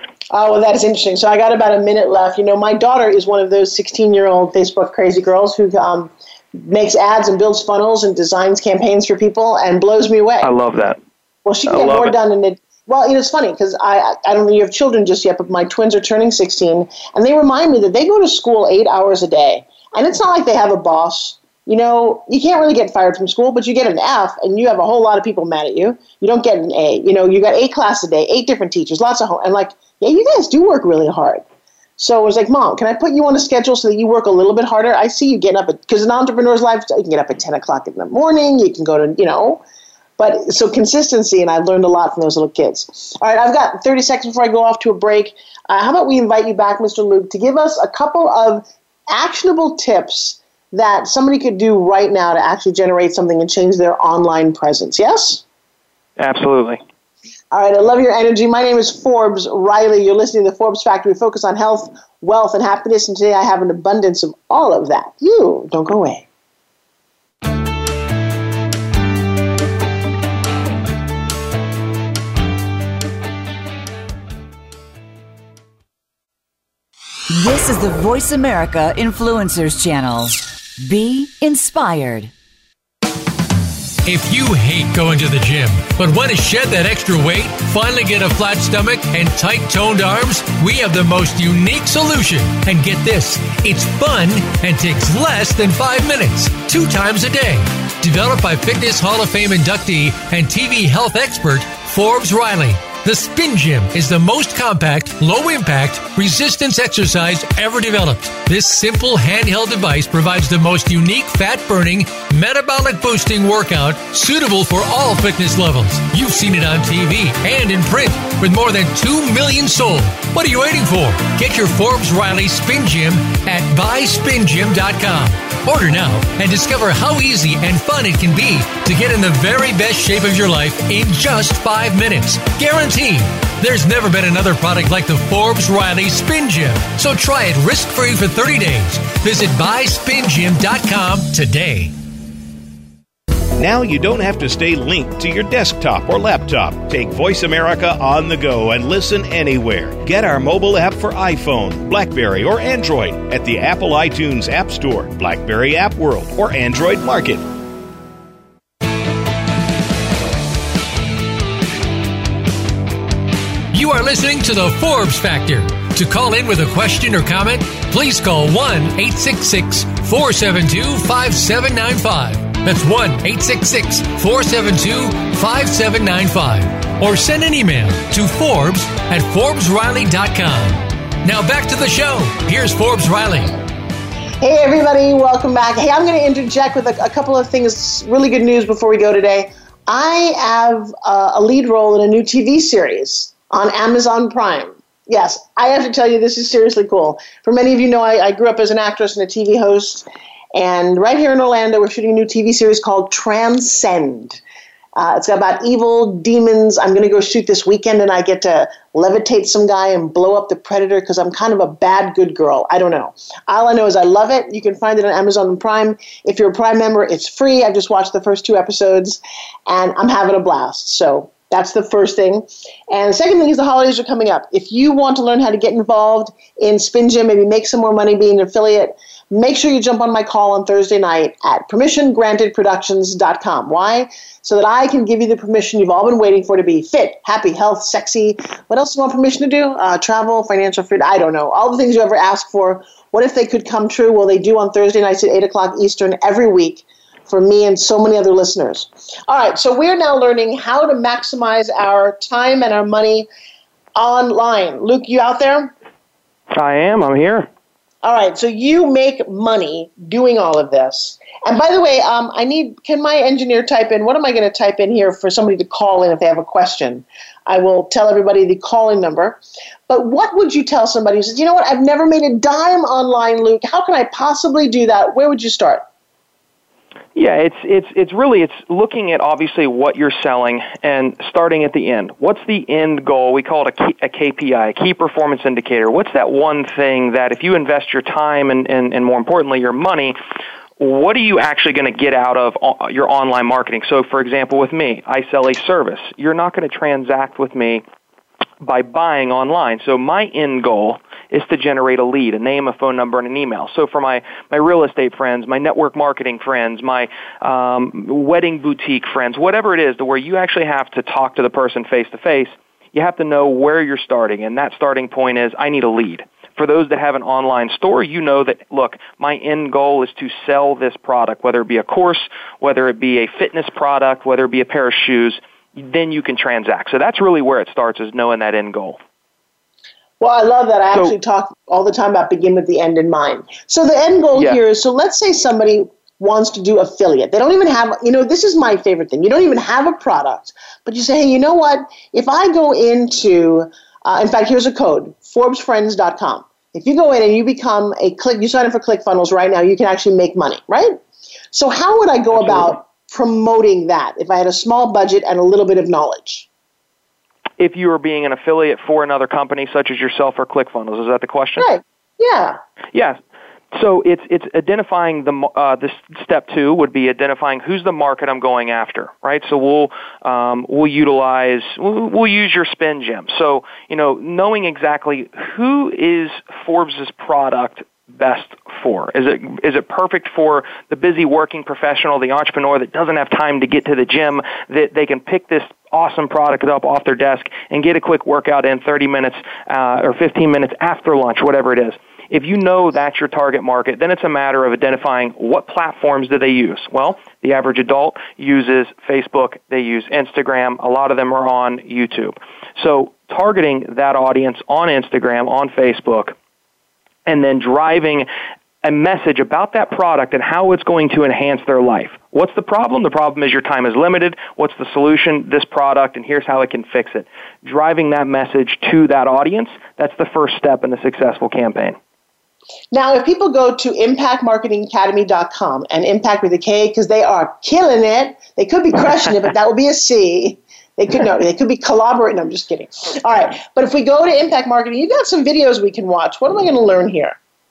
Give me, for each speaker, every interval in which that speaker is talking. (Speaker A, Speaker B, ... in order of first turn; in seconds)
Speaker A: 0.3-10.6, 11.4-31.4, 32.0-39.6, 40.2-55.4, 57.5-66.3, 184.4-204.4, 205.0-253.3, 254.0-255.7, 258.0-275.8, 330.2-351.0, 351.5-356.5, 361.6-362.6, 422.9-437.4
Speaker B: 10.4-11.0, 11.7-12.2, 56.2-56.8, 256.5-257.5, 277.1-290.2, 290.8-297.8, 298.6-329.0, 334.3-334.6, 352.4-352.7, 357.6-361.7, 362.9-363.2, 363.7-406.4, 407.3-408.3, 408.8-422.0
Speaker C: 77.3-82.3
Speaker D: 84.1-141.9, 163.7-183.6
Speaker E: 143.6-157.4